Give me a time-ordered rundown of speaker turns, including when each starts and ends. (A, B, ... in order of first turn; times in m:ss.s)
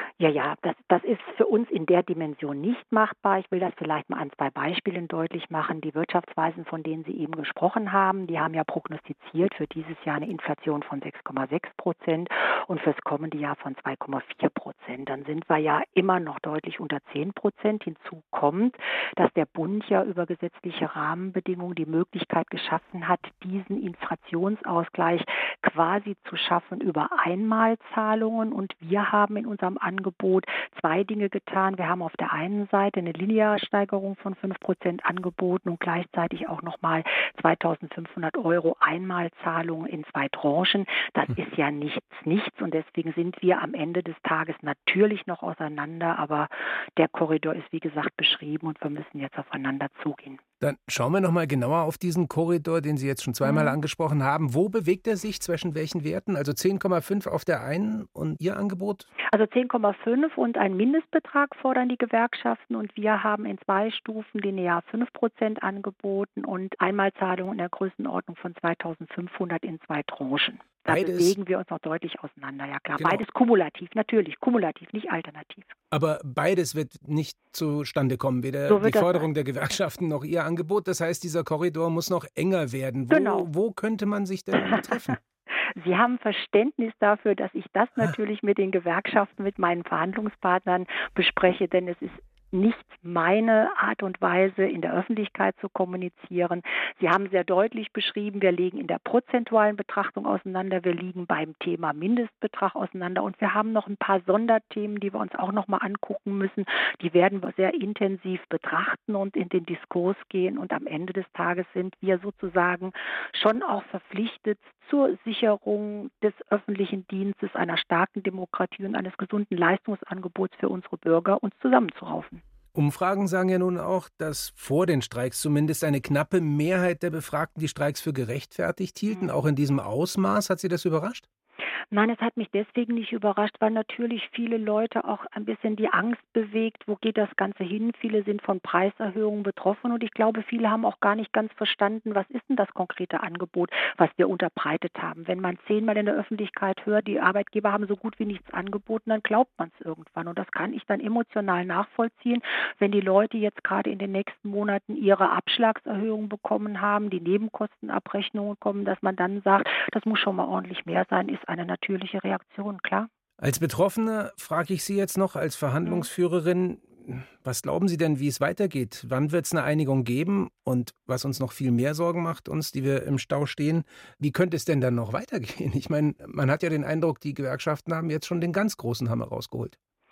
0:00.2-0:50.4 A
0:50.6-0:59.1 B
0:53.4-0:53.8 A
0:59.3-1:15.7 A
1:10.9-1:11.4 B
1:13.0-1:13.2 B
1:15.9-1:25.2 B
1:18.7-1:19.3 A
1:23.1-1:23.5 A
1:24.7-1:25.2 A
1:25.8-2:02.4 A
2:02.8-2:11.2 B
2:09.1-2:09.3 A
2:11.9-2:43.1 A
2:43.4-2:59.8 B
2:45.8-2:46.1 A